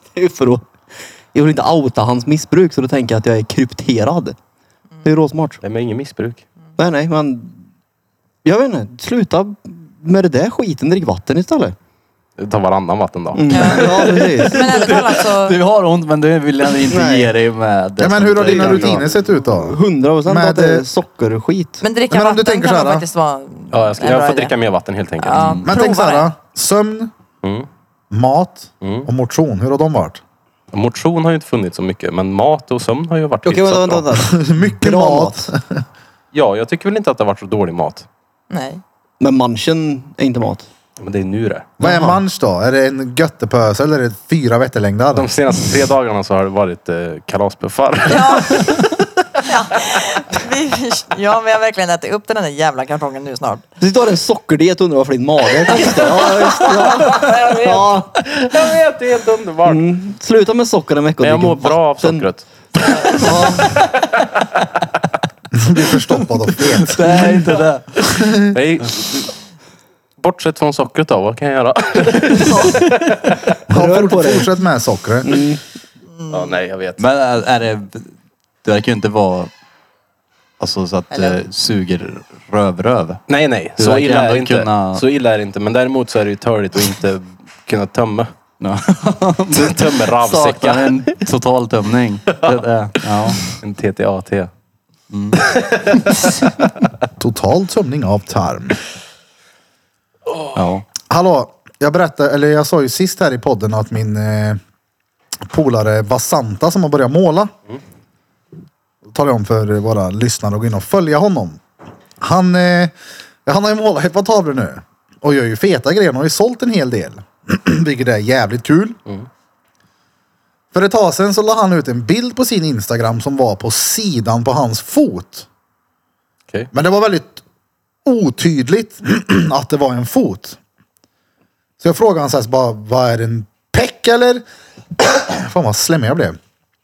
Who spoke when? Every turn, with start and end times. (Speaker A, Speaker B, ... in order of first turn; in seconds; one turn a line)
Speaker A: 0.1-0.7
Speaker A: 1.3-4.3
Speaker A: 5.0-5.6
Speaker B: 5.6-6.4
Speaker A: 6.8-7.6
Speaker A: 8.4-11.7
Speaker B: 12.4-14.0
Speaker A: 13.3-14.6
Speaker C: 13.5-15.6
Speaker D: 14.4-19.1
Speaker A: 16.9-17.3
Speaker E: 18.0-20.9
Speaker A: 18.4-21.8
Speaker C: 21.8-24.6
Speaker E: 22.1-23.1
Speaker B: 23.7-25.6
Speaker C: 25.2-26.3
Speaker D: 25.4-25.7
Speaker E: 25.6-27.1
Speaker E: 28.1-30.2
Speaker B: 28.8-29.1
Speaker B: 30.7-34.0
Speaker A: 33.4-35.5
Speaker E: 34.1-35.8
Speaker B: 36.3-38.1
Speaker C: 38.5-38.8
Speaker A: 39.2-40.7
Speaker B: 41.0-41.7
Speaker E: 41.8-45.3
Speaker A: 41.8-42.2
Speaker B: 45.1-48.9
Speaker C: 48.0-53.6
Speaker A: 53.8-58.1
Speaker C: 55.7-57.9
Speaker B: 57.1-57.5
Speaker B: 58.1-59.8
Speaker A: 59.6-62.3
Speaker B: 61.2-64.5
Speaker A: 63.0-63.8
Speaker E: 65.5-67.3
Speaker D: 66.8-67.9
Speaker E: 68.0-68.5
Speaker B: 68.5-69.3
Speaker B: 70.2-73.4
Speaker A: 72.4-72.9
Speaker E: 73.7-75.4
Speaker A: 73.7-74.5
Speaker A: 75.2-75.6
Speaker C: 76.1-76.6
Speaker B: 76.3-77.0
Speaker D: 77.0-78.1
Speaker D: 78.6-79.5
Speaker D: 80.6-83.2
Speaker C: 81.1-81.4
Speaker B: 83.3-88.3
Speaker D: 83.8-85.0
Speaker D: 88.6-93.4
Speaker B: 89.5-91.1
Speaker B: 93.2-94.5
Speaker D: 95.1-96.0
Speaker B: 95.4-96.3
Speaker E: 97.2-98.8
Speaker D: 100.5-100.8
Speaker E: 101.1-104.6
Speaker E: 105.5-107.5
Speaker E: 109.1-111.6
Speaker E: 112.2-112.9
Speaker E: 113.5-119.0
Speaker E: 120.7-125.5
Speaker E: 126.7-127.4
Speaker E: 128.0-130.6
Speaker E: 131.8-134.4
Speaker E: 135.0-136.4